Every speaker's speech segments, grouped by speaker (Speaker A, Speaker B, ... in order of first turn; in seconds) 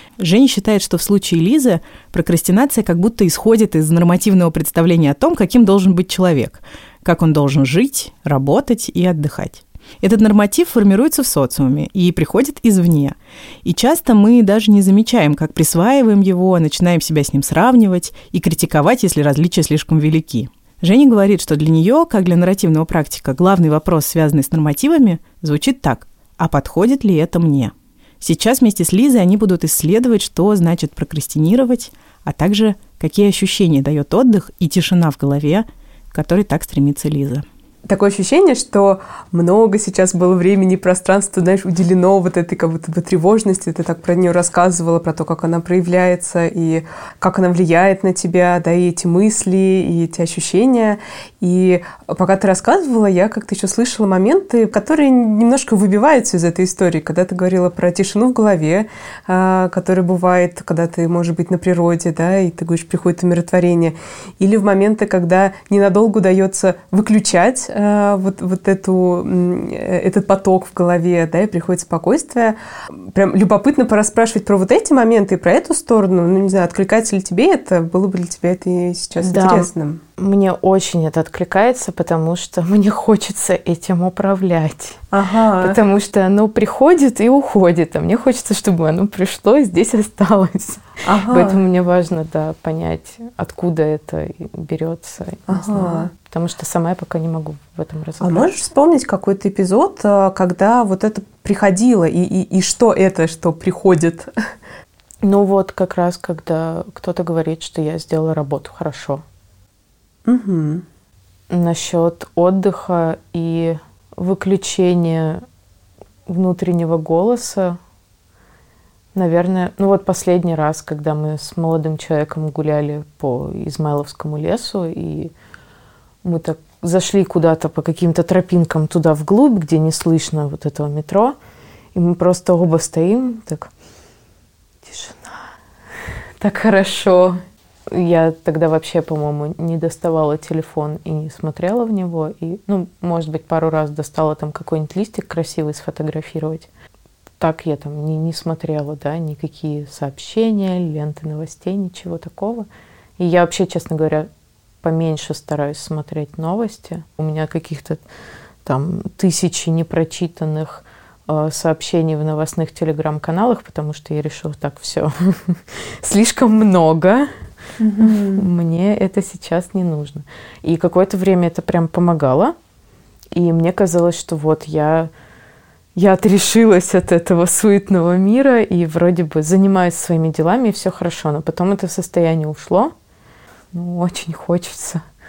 Speaker A: 0.2-37.5
Speaker B: 37.9-80.0, 85.1-85.8, 91.0-91.6, 95.5-96.1, 98.2-104.3, 110.2-110.8, 167.8-168.5
Speaker C: 79.2-85.0, 85.6-98.6, 105.2-109.2, 111.5-115.4, 116.3-117.8, 119.1-125.3, 126.2-131.4, 131.9-133.7, 134.8-135.4, 136.4-146.7, 147.4-152.7, 153.2-154.3, 154.8-158.0, 158.7-167.3, 168.0-172.6, 173.3-175.1, 176.0-182.9, 183.7-185.0